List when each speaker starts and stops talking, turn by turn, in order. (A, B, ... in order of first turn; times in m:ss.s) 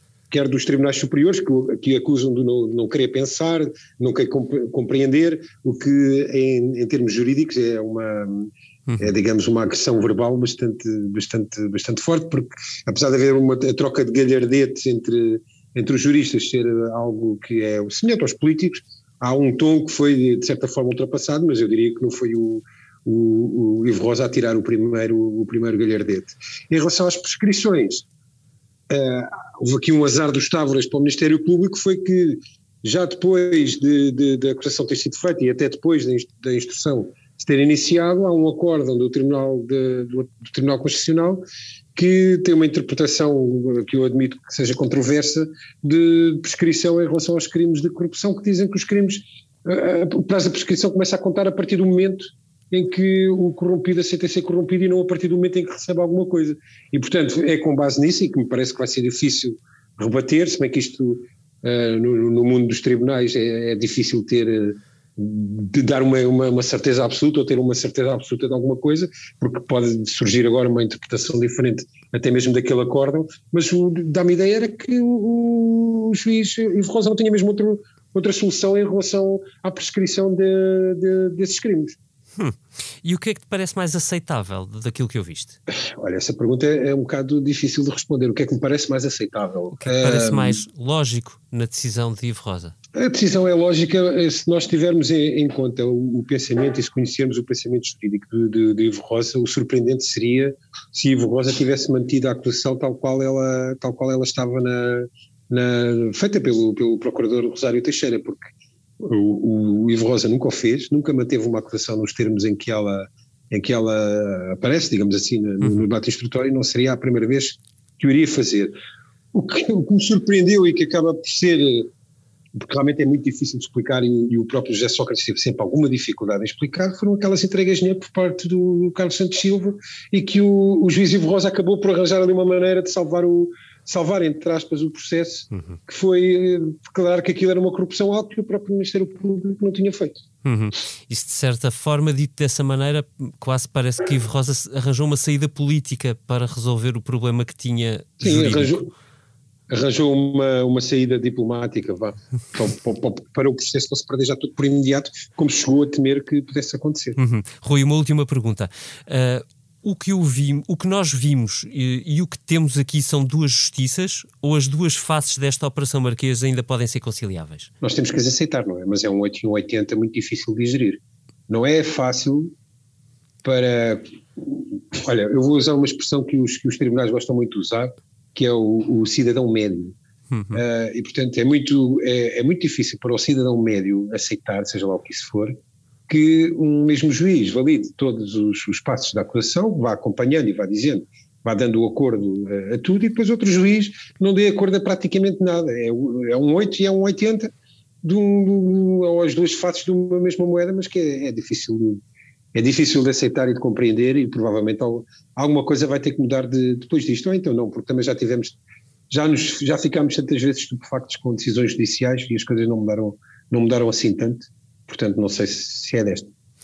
0:00.3-0:28.0 A
0:08.9-0:09.2 B
0:28.9-0:41.4 A
0:41.9-1:22.0 A
1:22.4-1:25.6 B
1:26.0-1:30.6 A
1:29.8-1:32.7 B
1:32.9-1:58.7 A
1:59.3-2:01.9 A
2:02.6-2:20.2 A
2:15.5-2:15.8 B
2:20.4-2:28.8 B
2:28.2-2:28.9 A
2:29.7-2:37.2 A
2:37.2-2:47.7 B
2:47.8-2:52.5 A
2:53.4-3:00.0 A
3:00.3-3:00.6 B
3:00.5-3:05.6 A
3:06.1-3:22.0 A
3:22.5-3:28.6 A
3:29.1-3:36.3 A